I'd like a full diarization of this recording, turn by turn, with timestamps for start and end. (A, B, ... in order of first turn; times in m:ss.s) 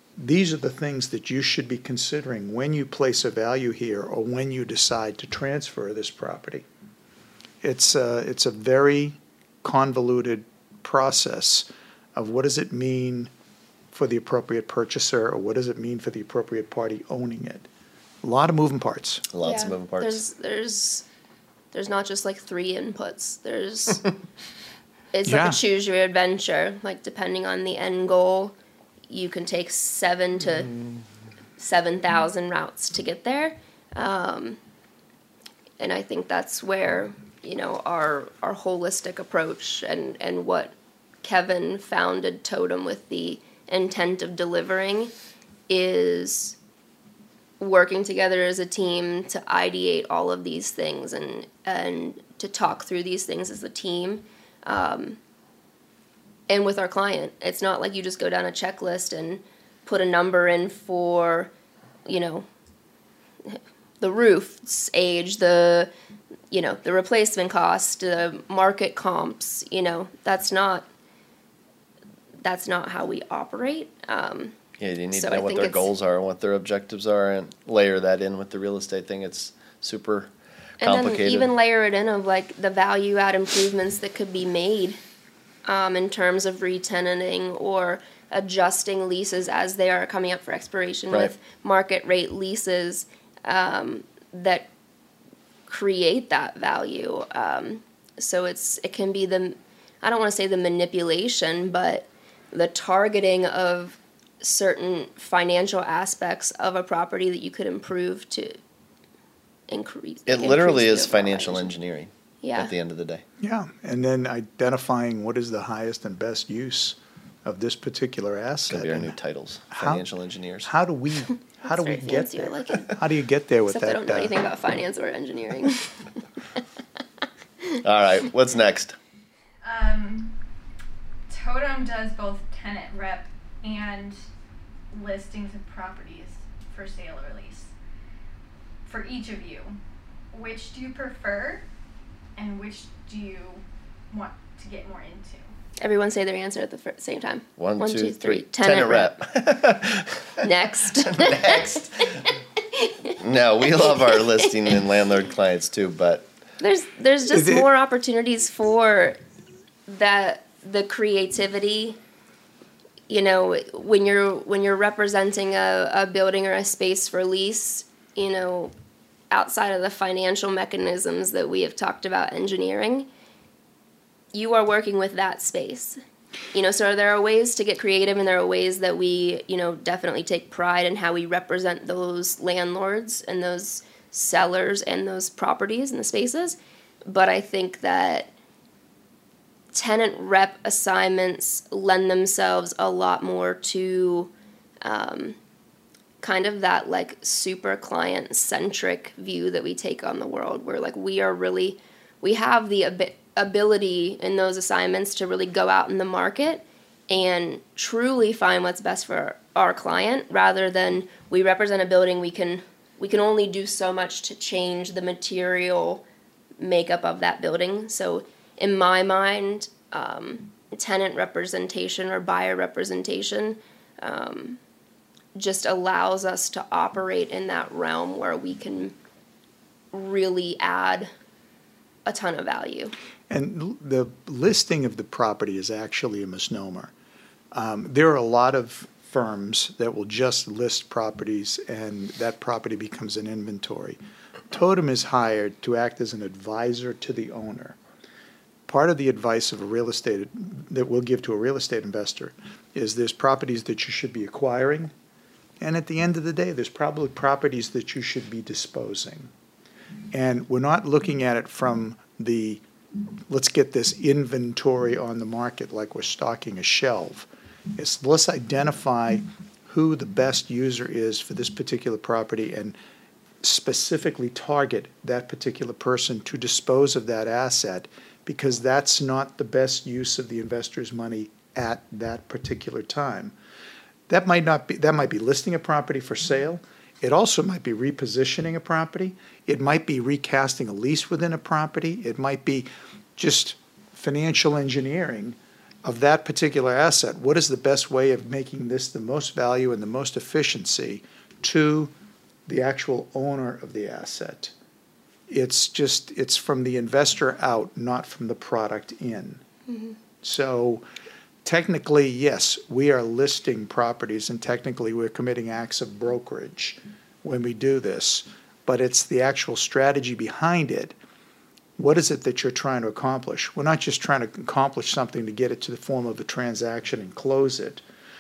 0:00.2-0:06.7 A
0:07.6-0:13.3 A
0:13.9-0:17.7 A
0:18.2-0:19.2 A
0:19.3-0:20.2 B
0:19.4-0:21.0 C
0:21.7-0:24.1 C
0:25.1-0:28.6 C
0:25.2-0:25.6 A
0:29.1-0:30.7 C
0:31.6-0:34.6 C
0:35.8-0:45.1 C
0:45.7-0:46.6 C
0:47.6-0:55.2 C
0:56.5-1:01.5 C
1:02.1-1:02.5 C
1:03.4-1:05.9 C
1:06.5-1:10.9 C
1:12.4-1:14.6 C
1:14.8-1:21.5 B
1:15.1-1:15.9 C
1:20.8-1:25.0 C
1:25.6-1:34.7 C
1:35.7-1:48.6 C
1:49.7-1:51.7 C
1:50.3-1:53.2 B
1:52.4-1:52.7 C
1:53.4-1:59.2 A
1:58.7-2:00.7 B
1:59.7-2:00.0 A
2:00.6-2:04.4 A
2:01.6-2:02.9 C
2:03.7-2:06.0 C
2:07.8-2:09.0 B
2:09.6-2:10.4 D
2:11.3-2:14.2 D
2:14.9-2:17.7 D
2:18.9-2:19.8 D
2:20.3-2:21.6 D
2:22.4-2:25.5 D
2:25.8-2:29.1 C
2:27.6-2:32.2 B
2:30.4-2:33.2 C
2:33.2-2:36.2 B
2:33.8-2:34.4 C
2:36.6-2:39.2 C
2:37.3-2:37.7 A
2:39.9-2:42.0 C
2:43.1-2:48.7 C
2:49.3-2:53.1 C
2:54.3-2:56.0 C
2:56.5-3:08.3 C
3:09.7-3:14.3 C
3:14.8-3:15.4 C
3:16.2-3:36.0 C
3:36.6-3:44.6 C
3:45.4-3:49.0 C
3:49.9-3:51.1 C
3:52.1-3:52.9 C
3:53.3-3:56.9 A
3:57.5-4:04.0 A
4:04.5-4:07.8 A
4:08.7-4:14.9 A
4:15.6-4:19.3 A
4:20.1-4:22.6 A
4:23.3-4:32.8 A
4:33.4-4:43.4 A
4:44.1-5:01.9 A
5:02.5-5:04.5 A
5:05.3-5:09.4 A
5:09.7-5:10.0 C
5:10.2-5:10.8 A
5:11.4-5:21.0 A
5:21.8-5:27.8 A